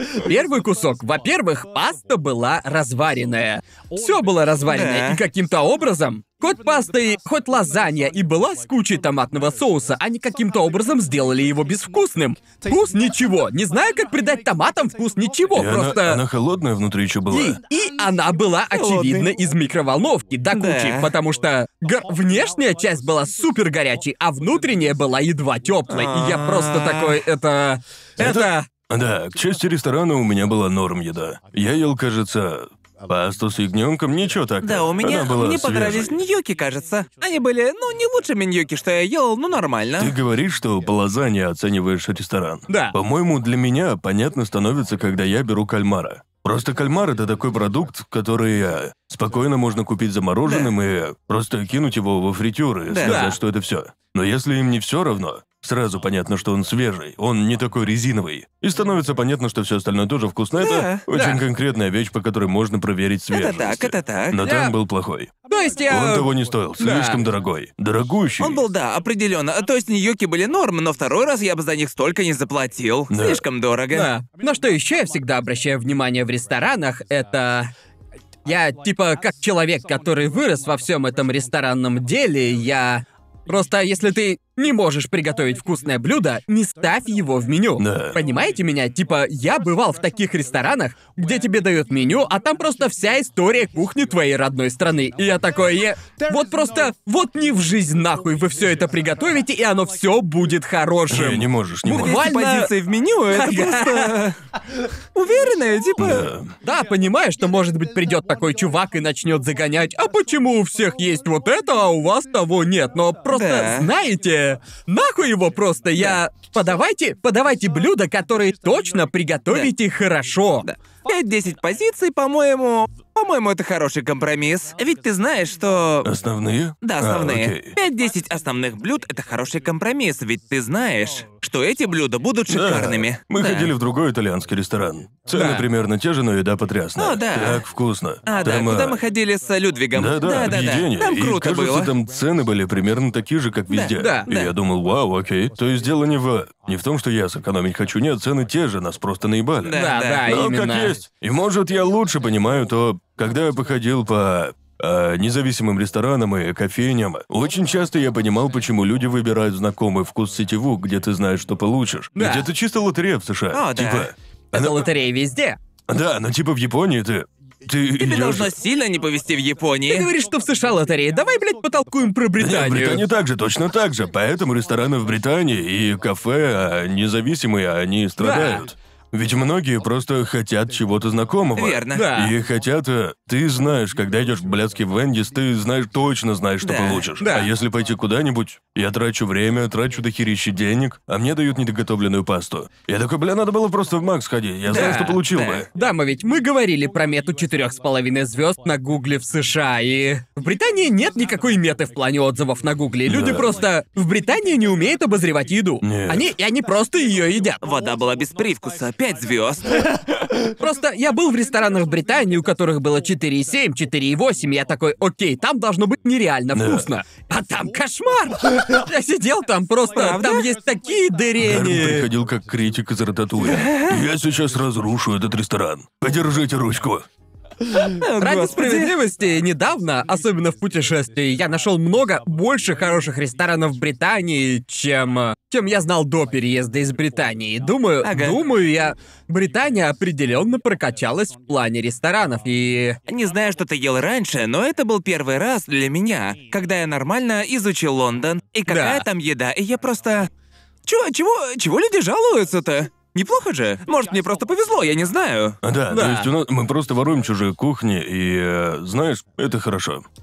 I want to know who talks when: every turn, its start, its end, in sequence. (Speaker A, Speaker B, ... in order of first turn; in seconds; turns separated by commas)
Speaker A: 0.1-16.2, Speaker B: 4.7-5.2, Speaker C: 15.5-17.6, Speaker A: 17.3-28.7, Speaker B: 18.7-19.3, Speaker B: 20.5-21.1, Speaker B: 25.9-27.2, Speaker C: 28.2-36.2, Speaker B: 34.6-40.1, Speaker C: 40.0-65.3, Speaker A: 42.7-43.0, Speaker B: 50.5-50.7, Speaker B: 52.9-53.2, Speaker A: 53.0-53.4, Speaker B: 60.6-61.1, Speaker A: 61.1-61.4, Speaker B: 63.3-64.4, Speaker A: 64.4-64.7, Speaker A: 65.5-67.2, Speaker C: 65.9-68.6, Speaker B: 68.4-74.1, Speaker C: 73.1-73.4, Speaker A: 73.9-77.7, Speaker A: 78.5-102.7, Speaker C: 87.8-88.2, Speaker C: 101.1-102.2, Speaker B: 101.9-104.4, Speaker A: 103.3-104.2, Speaker B: 105.2-106.3, Speaker C: 106.0-106.5, Speaker A: 106.6-120.7, Speaker B: 113.3-113.9, Speaker B: 120.7-126.1, Speaker C: 126.0-127.8, Speaker B: 126.8-133.7, Speaker C: 132.5-139.0, Speaker A: 135.3-135.7, Speaker B: 137.0-137.6, Speaker B: 138.3-141.9, Speaker C: 139.9-164.9, Speaker B: 143.7-144.6, Speaker A: 144.0-144.3, Speaker B: 149.6-150.3, Speaker A: 149.7-151.0, Speaker A: 162.2-162.5, Speaker B: 163.5-164.1, Speaker A: 164.5-165.6, Speaker C: 165.9-168.5, Speaker B: 168.0-170.1, Speaker A: 169.9-173.1, Speaker C: 172.4-195.7, Speaker A: 178.2-178.7, Speaker B: 181.6-182.2, Speaker A: 181.9-182.3, Speaker B: 186.6-187.1, Speaker A: 187.2-187.5, Speaker A: 194.7-195.2, Speaker B: 194.7-195.7, Speaker A: 195.7-207.6, Speaker C: 203.1-203.6, Speaker C: 205.8-206.3, Speaker B: 207.6-209.8, Speaker A: 210.4-222.1, Speaker C: 216.5-216.9, Speaker B: 219.9-220.5, Speaker C: 221.4-227.1, Speaker B: 223.4-224.0, Speaker B: 227.8-228.9, Speaker A: 228.2-243.0, Speaker B: 238.0-238.4, Speaker B: 243.1-250.3, Speaker A: 248.7-249.1, Speaker B: 250.9-255.6, Speaker C: 255.6-260.1, Speaker A: 255.9-256.3